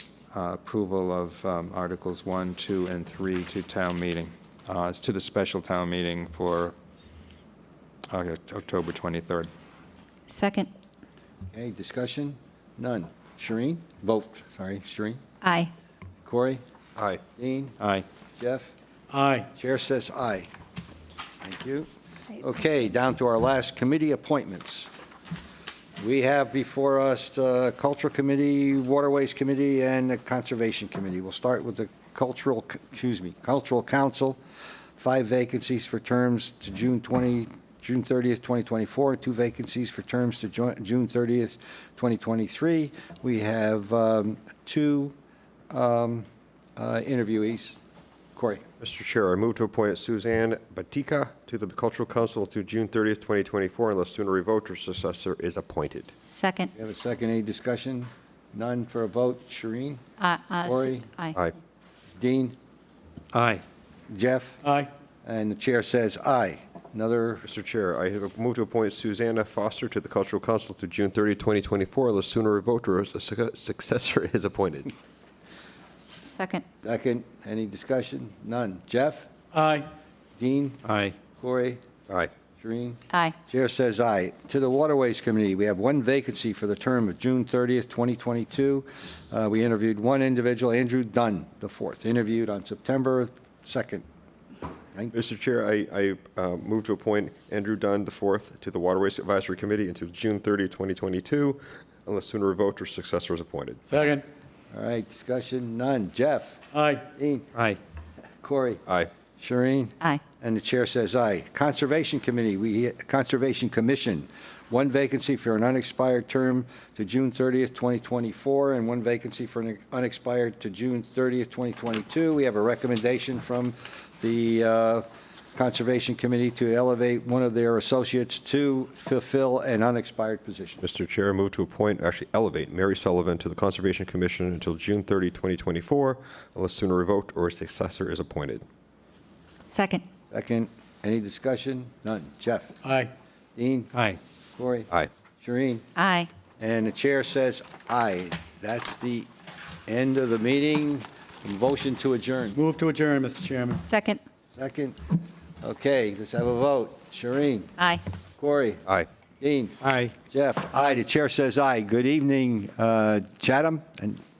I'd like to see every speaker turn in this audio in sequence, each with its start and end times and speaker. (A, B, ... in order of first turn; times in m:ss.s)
0:00.3-0:06.7 A
0:08.1-0:09.5 A
0:10.3-0:10.7 B
0:11.5-0:15.2 C
0:15.4-0:15.7 B
0:16.2-0:16.6 C
0:17.0-0:17.2 D
0:17.3-0:17.8 C
0:17.8-0:18.0 A
0:18.4-0:18.7 C
0:19.1-0:19.5 E
0:19.5-0:20.5 C
0:21.4-0:24.9 C
0:26.0-0:34.4 C
0:35.0-0:45.2 C
0:45.7-0:47.8 C
0:48.3-0:48.6 C
0:48.8-0:56.1 D
0:56.3-0:56.7 B
0:56.7-1:00.0 C
1:00.2-1:01.4 B
1:00.6-1:01.1 C
1:02.2-1:02.5 C
1:03.3-1:03.6 A
1:04.1-1:04.6 C
1:04.6-1:04.9 E
1:05.2-1:07.4 C
1:07.4-1:14.9 D
1:16.3-1:16.6 B
1:16.8-1:19.3 C
1:19.5-1:19.9 E
1:20.4-1:20.8 C
1:20.8-1:21.2 A
1:21.4-1:21.8 C
1:22.6-1:34.0 C
1:23.1-1:23.4 B
1:35.1-1:43.8 D
1:43.9-1:44.2 E
1:44.7-1:46.6 C
1:46.7-1:47.0 E
1:47.1-1:47.5 C
1:48.4-1:48.8 C
1:49.4-2:10.8 C
2:10.8-2:18.6 D
2:19.6-2:20.0 B
2:20.3-2:22.8 C
2:22.8-2:23.1 E
2:23.6-2:23.9 C
2:23.9-2:24.2 A
2:24.6-2:25.8 C
2:26.0-2:26.3 B
2:26.6-2:29.3 C
2:29.8-2:32.6 C
2:32.6-2:33.8 E
2:33.8-2:34.2 B
2:34.5-2:35.0 C
2:35.6-2:37.7 C
2:37.8-2:38.0 B
2:38.4-2:38.8 C
2:39.4-2:39.8 C
2:39.8-2:40.1 A
2:40.3-2:44.2 C